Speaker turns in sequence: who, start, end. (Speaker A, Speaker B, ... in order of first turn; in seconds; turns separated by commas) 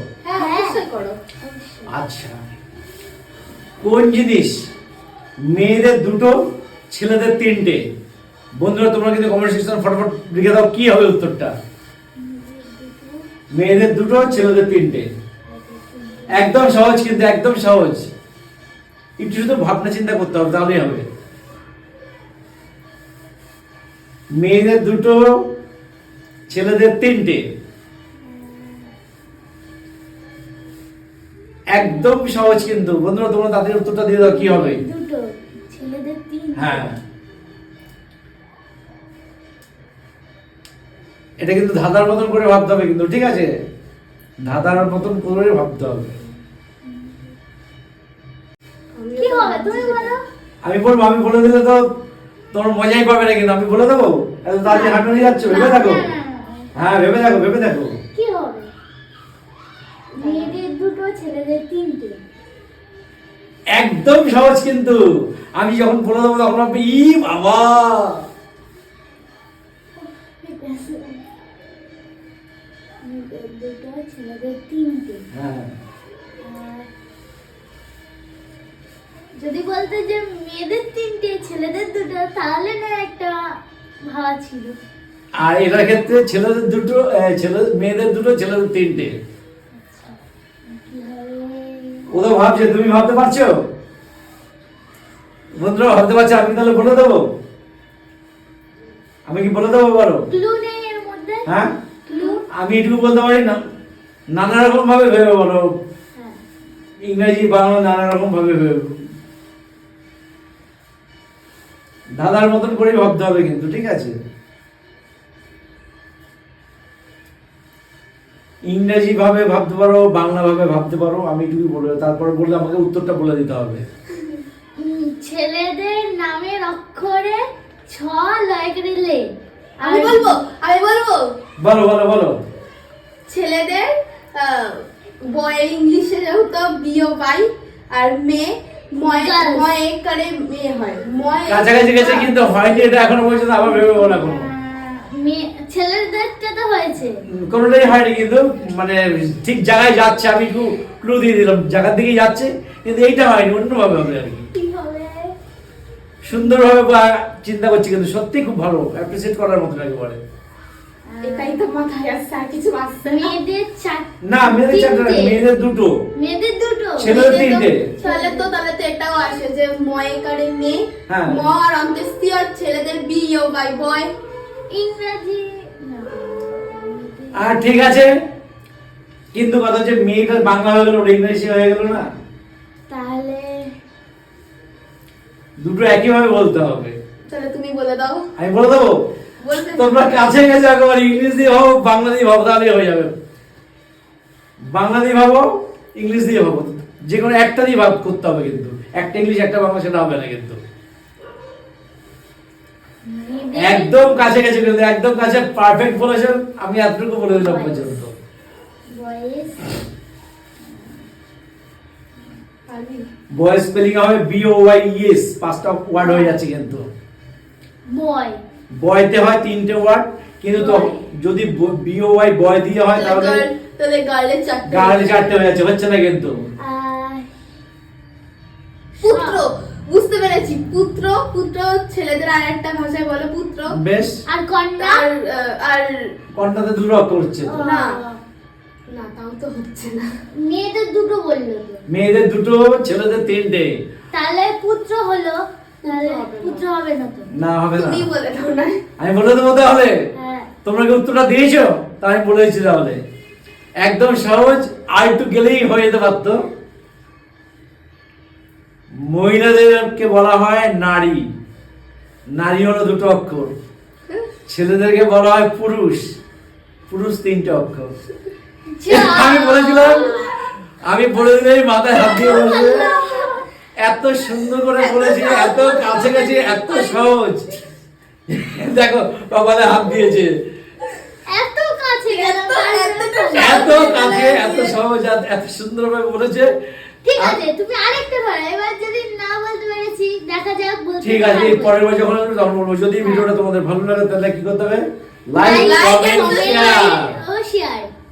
Speaker A: 0.2-1.2, Speaker B: 0.3-0.8, Speaker B: 1.4-1.9, Speaker C: 1.9-2.4, Speaker C: 3.8-4.6, Speaker C: 5.5-6.4, Speaker C: 6.9-7.8, Speaker C: 8.6-11.5, Speaker B: 12.2-13.2, Speaker C: 13.5-15.1, Speaker B: 15.5-16.6, Speaker C: 16.3-18.1, Speaker C: 19.2-21.1, Speaker C: 24.4-25.2, Speaker C: 26.5-27.4, Speaker B: 28.2-28.9, Speaker C: 31.7-34.8, Speaker B: 34.2-36.9, Speaker C: 36.6-37.0, Speaker C: 41.4-43.5, Speaker C: 44.5-46.1, Speaker B: 46.9-47.2, Speaker A: 48.9-50.1, Speaker B: 49.2-50.2, Speaker C: 50.6-51.9, Speaker C: 52.5-56.0, Speaker B: 54.6-56.7, Speaker C: 56.8-57.9, Speaker B: 58.1-58.7, Speaker A: 60.1-60.6, Speaker B: 60.2-62.2, Speaker C: 63.7-65.0, Speaker C: 65.5-68.2, Speaker B: 70.0-71.2, Speaker B: 73.0-75.2, Speaker C: 75.3-75.7, Speaker B: 76.4-76.9, Speaker B: 79.4-83.4, Speaker B: 84.0-84.8, Speaker C: 85.4-89.2, Speaker B: 89.7-92.1, Speaker C: 92.1-93.6, Speaker C: 95.6-97.3, Speaker C: 99.3-100.3, Speaker B: 100.3-101.5, Speaker C: 101.5-101.7, Speaker B: 102.1-102.5, Speaker C: 102.5-103.6, Speaker C: 104.3-105.7, Speaker C: 107.0-108.9, Speaker C: 112.2-114.2, Speaker C: 118.7-123.8, Speaker B: 124.8-130.3, Speaker A: 129.8-131.2, Speaker C: 131.6-132.4, Speaker A: 133.3-142.3, Speaker B: 139.2-139.7, Speaker C: 141.5-144.5, Speaker B: 143.6-147.2, Speaker C: 147.3-154.5, Speaker B: 154.6-155.2, Speaker C: 156.2-160.2, Speaker B: 161.1-161.7, Speaker A: 161.2-163.3, Speaker B: 163.0-165.4, Speaker C: 164.2-165.9, Speaker B: 166.2-167.2, Speaker C: 167.0-167.9, Speaker A: 167.1-174.1, Speaker B: 168.0-168.6, Speaker C: 171.1-171.4, Speaker B: 174.7-177.6, Speaker C: 177.3-178.1, Speaker C: 179.3-182.1, Speaker B: 182.9-183.7, Speaker C: 185.6-187.0, Speaker A: 187.3-188.2, Speaker C: 188.4-189.0, Speaker A: 189.4-190.3, Speaker C: 189.6-193.1, Speaker C: 194.7-195.5, Speaker C: 196.0-200.6, Speaker B: 203.0-204.3, Speaker C: 203.6-208.1, Speaker B: 207.3-207.9, Speaker B: 208.9-209.8, Speaker B: 210.7-211.0, Speaker A: 212.7-213.1, Speaker C: 213.3-216.9, Speaker B: 216.0-216.4, Speaker B: 217.9-218.4, Speaker C: 218.8-223.4, Speaker B: 220.5-221.1, Speaker A: 222.9-225.3, Speaker C: 224.7-226.3, Speaker B: 226.6-227.3, Speaker B: 229.0-229.4, Speaker A: 229.0-233.8, Speaker C: 233.7-234.2, Speaker B: 234.3-235.1, Speaker A: 234.8-236.1, Speaker C: 236.3-237.6, Speaker B: 237.5-238.2, Speaker A: 237.6-238.0, Speaker A: 238.9-240.1, Speaker B: 240.3-241.8, Speaker C: 241.9-243.7, Speaker B: 244.1-247.3, Speaker A: 245.8-246.7, Speaker C: 247.3-248.1, Speaker A: 247.8-248.8, Speaker C: 249.0-249.9, Speaker B: 250.2-250.5, Speaker C: 250.6-253.0, Speaker C: 253.8-256.4, Speaker C: 259.0-261.3, Speaker C: 262.4-263.5, Speaker C: 264.5-266.1, Speaker C: 266.9-267.9, Speaker B: 268.7-270.4, Speaker C: 268.9-270.2, Speaker C: 270.8-272.9, Speaker B: 272.0-273.4, Speaker A: 272.2-273.3, Speaker C: 273.8-277.5, Speaker A: 274.8-276.8, Speaker C: 278.3-280.3, Speaker B: 281.3-283.7, Speaker A: 282.1-284.8, Speaker C: 283.3-286.5, Speaker B: 287.0-291.8, Speaker C: 291.0-297.1, Speaker B: 293.0-293.3, Speaker A: 295.4-296.9, Speaker B: 295.4-297.9